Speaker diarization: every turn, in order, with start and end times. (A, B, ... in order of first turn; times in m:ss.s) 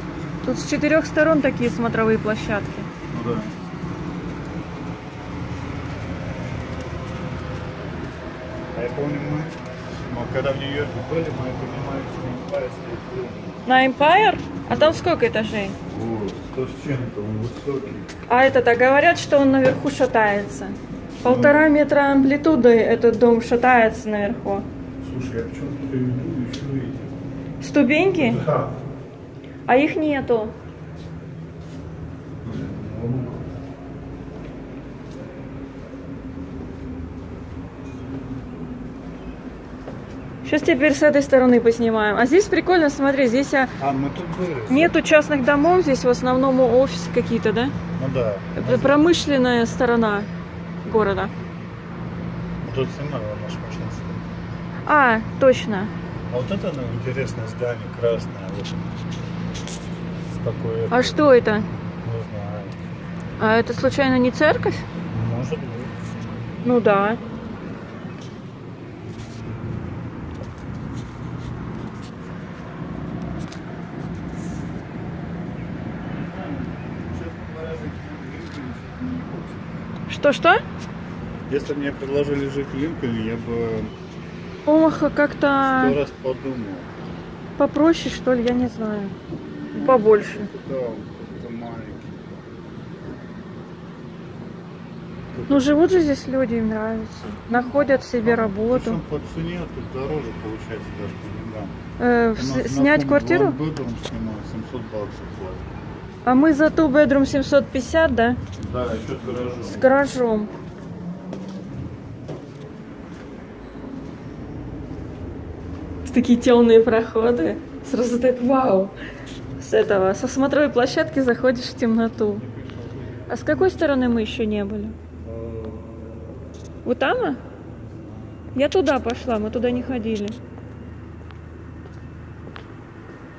0:00.4-0:02.9 A
0:03.1-0:03.6 B
0:08.7-0:09.6 B
0:10.1-0:13.6 B
0:13.7-0:15.8 A
0:14.7-0:15.0 B
0:15.9-0:18.1 B
0:18.3-0:24.7 A
0:21.2-0:21.6 B
0:25.0-0:27.2 B
0:27.6-0:28.4 A
0:28.2-0:28.8 B
0:29.7-0:30.5 A
0:32.4-0:33.5 B
0:40.4-0:43.7 A
0:43.8-0:45.0 B
0:44.7-0:47.8 A
0:48.0-0:49.0 B
0:48.6-0:50.3 A
0:50.8-0:51.3 A
0:52.6-0:54.2 B
0:54.9-0:55.9 A
0:56.3-0:58.8 B
1:00.4-1:01.3 B
1:00.9-1:01.7 A
1:02.0-1:02.8 B
1:03.4-1:04.9 A
1:05.1-1:05.9 B
1:06.6-1:07.2 A
1:16.0-1:19.7 B
1:20.1-1:20.6 A
1:21.5-1:23.9 B
1:24.7-1:26.0 A
1:25.6-1:26.9 B
1:27.6-1:29.2 A
1:29.7-1:32.4 B
1:29.8-1:30.5 A
1:35.3-1:35.9 B
1:35.5-1:39.0 A
1:37.5-1:41.8 B
1:42.0-1:43.6 A
1:42.4-1:45.7 B
1:46.2-1:48.4 A
1:48.6-1:49.9 B
1:49.7-1:50.5 A
1:56.0-1:58.9 A
1:59.6-2:02.5 A
2:02.4-2:03.7 B
2:03.3-2:05.0 A
2:05.2-2:06.2 B
2:06.8-2:07.4 A
2:08.0-2:08.5 B
2:08.6-2:10.4 A